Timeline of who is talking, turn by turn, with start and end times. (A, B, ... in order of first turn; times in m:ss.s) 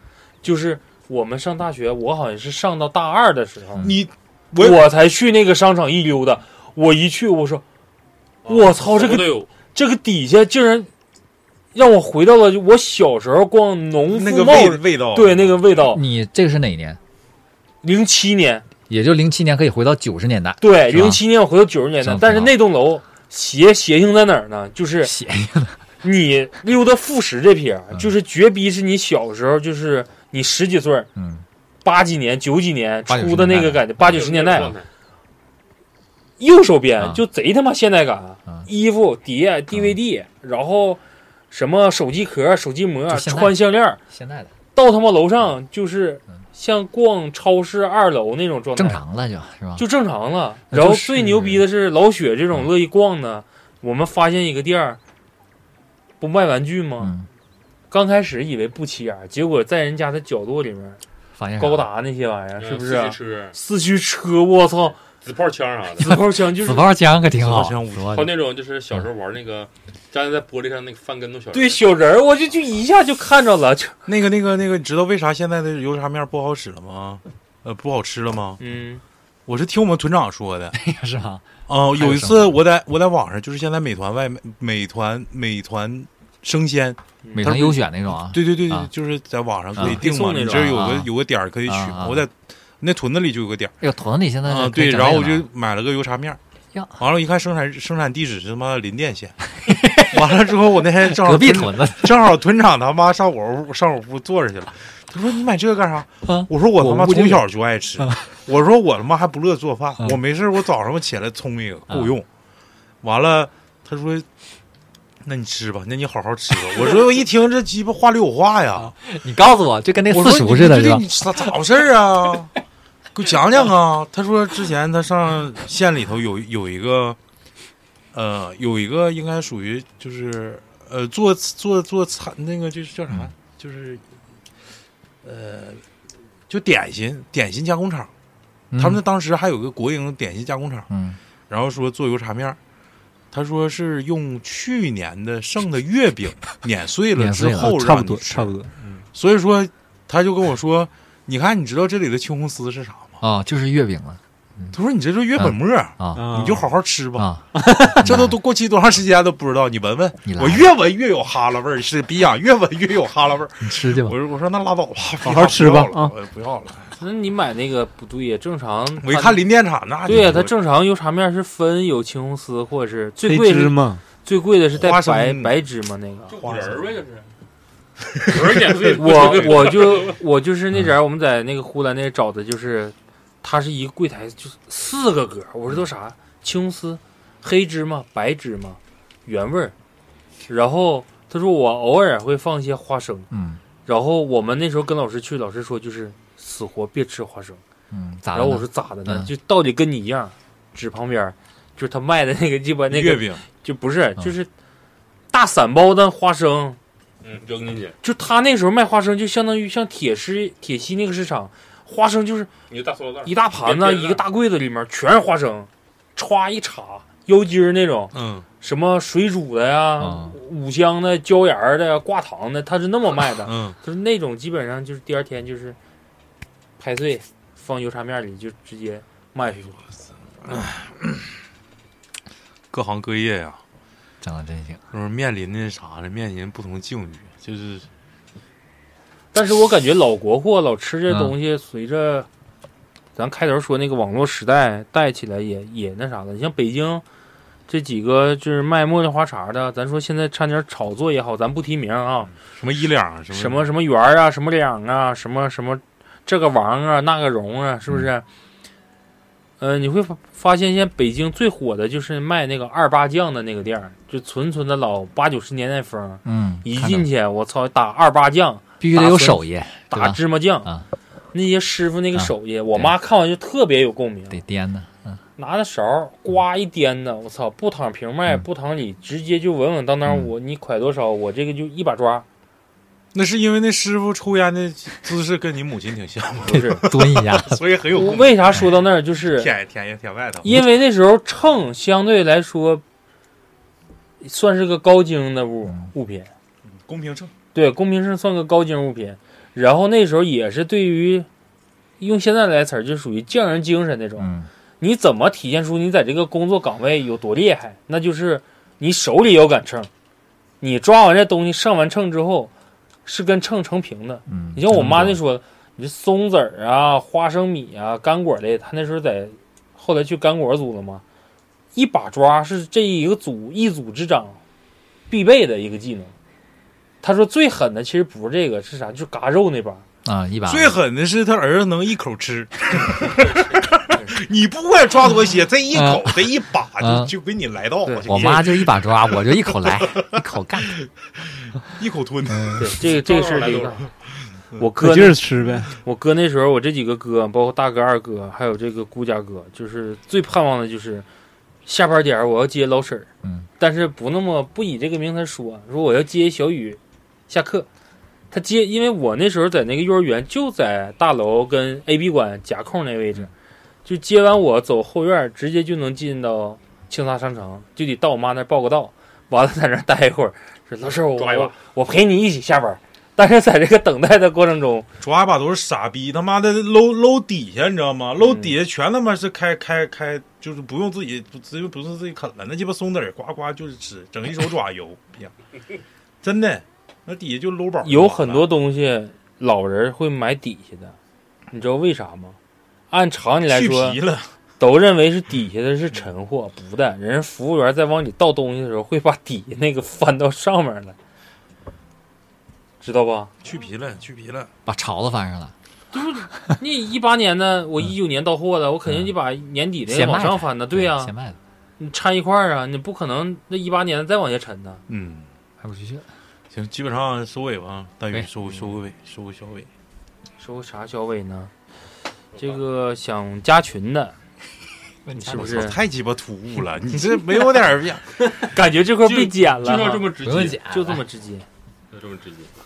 0:00.4-0:03.9 A
0:03.8-0:04.8 B
0:04.6-0:07.6 A
0:08.4-0:09.5 C
0:08.4-0:10.9 A
0:11.7-0:16.0 A
0:14.1-0:15.6 B
0:15.8-0:17.0 D
0:17.8-0:18.6 A
0:18.9-0:21.2 D
0:20.6-0:25.1 A
0:22.0-0:22.6 D
0:25.0-0:25.8 D
0:26.0-0:31.1 A
0:31.2-0:31.4 D
0:31.8-0:34.8 A
0:33.1-0:34.1 D
0:34.0-0:34.9 C
0:36.4-0:41.0 A
0:41.5-0:44.0 A
0:43.1-0:44.5 D
0:44.8-0:49.0 A
0:48.8-0:49.9 D
0:49.8-0:55.0 A
0:50.7-0:51.6 D
0:56.2-0:57.1 A
0:57.0-0:57.3 D
0:57.9-1:01.0 A
1:01.4-1:01.9 D
1:01.6-1:05.0 A
1:02.6-1:03.6 C
1:05.2-1:06.2 C
1:06.0-1:06.9 A
1:06.1-1:08.4 D
1:07.3-1:08.3 B
1:08.0-1:11.9 C
1:11.5-1:14.0 A
1:14.1-1:18.6 B
1:18.6-1:19.0 A
1:19.5-1:20.8 B
1:20.7-1:22.6 D
1:21.7-1:33.8 B
1:27.2-1:27.6 A
1:27.4-1:28.9 D
1:29.8-1:31.1 D
1:29.8-1:30.9 A
1:31.6-1:32.3 D
1:33.8-1:35.5 D
1:34.5-1:36.4 B
1:36.7-1:37.0 D
1:37.0-1:39.4 B
1:39.6-1:40.3 D
1:40.0-1:52.3 B
1:41.0-1:42.2 D
1:46.2-1:47.4 D
1:48.0-1:48.2 D
1:51.9-1:52.1 D
1:53.0-1:54.3 B
1:55.2-1:59.0 B
1:58.8-2:01.5 D
2:00.1-2:02.5 B
2:03.1-2:07.2 B
2:08.1-2:14.0 B
2:15.2-2:15.8 B
2:16.5-2:18.1 B
2:18.7-2:19.0 D
2:18.8-2:20.9 B
2:20.9-2:21.2 D
2:21.5-2:22.6 B
2:23.3-2:28.6 B
2:27.2-2:27.8 D
2:27.6-2:28.9 E
2:29.1-2:33.2 B
2:33.2-2:34.8 D
2:34.7-2:37.3 B
2:35.4-2:36.4 D
2:36.2-2:36.6 E
2:37.2-2:38.4 D
2:37.5-2:38.1 E
2:37.9-2:47.0 B
2:40.2-2:40.7 D
2:43.6-2:44.2 D
2:45.2-2:46.1 E
2:47.0-2:49.4 A
2:49.0-2:50.5 B
2:50.1-2:56.4 A
2:53.2-2:54.0 E
2:54.7-2:55.5 B
2:56.3-2:57.3 C
2:56.4-2:56.9 B
2:58.2-2:59.3 B
2:58.2-3:00.2 C
2:58.9-3:09.7 A
3:10.5-3:13.3 A
3:13.3-3:13.6 D
3:13.9-3:17.6 A
3:17.9-3:19.3 D
3:18.3-3:24.5 A
3:22.9-3:23.4 B
3:25.3-3:26.8 A
3:27.2-3:28.0 C
3:28.0-3:32.5 A
3:32.7-3:34.2 C
3:33.2-3:45.8 A
3:38.1-3:38.5 B
3:40.0-3:40.4 D
3:43.4-3:43.8 B
3:46.8-3:49.9 A
3:50.5-3:51.2 B
3:52.7-3:53.6 B
3:54.2-3:54.8 D
3:54.9-3:57.9 B
3:59.3-4:02.3 A
4:01.1-4:01.3 D
4:03.2-4:07.0 A
4:07.7-4:12.3 A
4:12.5-4:13.7 B
4:13.3-4:18.2 A
4:19.6-4:30.7 A
4:26.2-4:27.1 D
4:28.8-4:30.9 D
4:31.3-4:34.4 A
4:32.2-4:32.9 D
4:34.3-4:35.2 D
4:35.4-4:42.2 A
4:43.1-4:50.6 B
4:46.5-4:46.8 A
4:46.5-4:47.6 D
4:47.9-4:49.5 A
4:50.4-4:52.8 A
4:54.2-4:56.3 A
4:56.8-4:57.3 B
4:57.5-5:01.3 A
5:02.0-5:09.9 A
5:04.2-5:04.5 D
5:10.6-5:12.5 A
5:13.1-5:21.0 A
5:14.3-5:15.2 D
5:21.7-5:24.4 A
5:25.1-5:26.1 A
5:27.0-5:29.8 A
5:30.0-5:30.8 D
5:30.5-5:42.8 B
5:35.7-5:37.1 D
5:37.8-5:38.4 A
5:38.1-5:40.8 D
5:42.6-5:43.9 A
5:42.9-5:43.8 C
5:44.6-5:45.2 A
5:44.8-5:45.8 E
5:45.8-5:51.1 A
5:51.7-5:57.7 A
5:58.3-6:03.3 A
6:03.8-6:14.9 A
6:11.2-6:11.6 C
6:15.0-6:25.3 B
6:18.2-6:18.6 A
6:26.2-6:28.5 B
6:27.8-6:31.0 A
6:31.5-6:32.4 A
6:32.9-6:34.0 A
6:33.5-6:34.3 B
6:34.6-6:41.0 A
6:42.8-6:43.3 A
6:43.4-6:44.5 B
6:44.7-6:45.5 D
6:45.9-6:51.1 A
6:49.9-6:51.4 D
6:51.8-6:54.8 A
6:54.9-6:55.3 B
6:55.6-6:56.1 D
6:56.5-6:59.7 B
6:58.1-6:58.5 D
7:00.4-7:01.5 A
7:02.4-7:04.2 A
7:05.0-7:05.8 D
7:05.2-7:05.8 A
7:05.3-7:08.0 B
7:08.3-7:11.4 A
7:09.0-7:10.6 C
7:10.2-7:11.0 D
7:11.9-7:12.5 C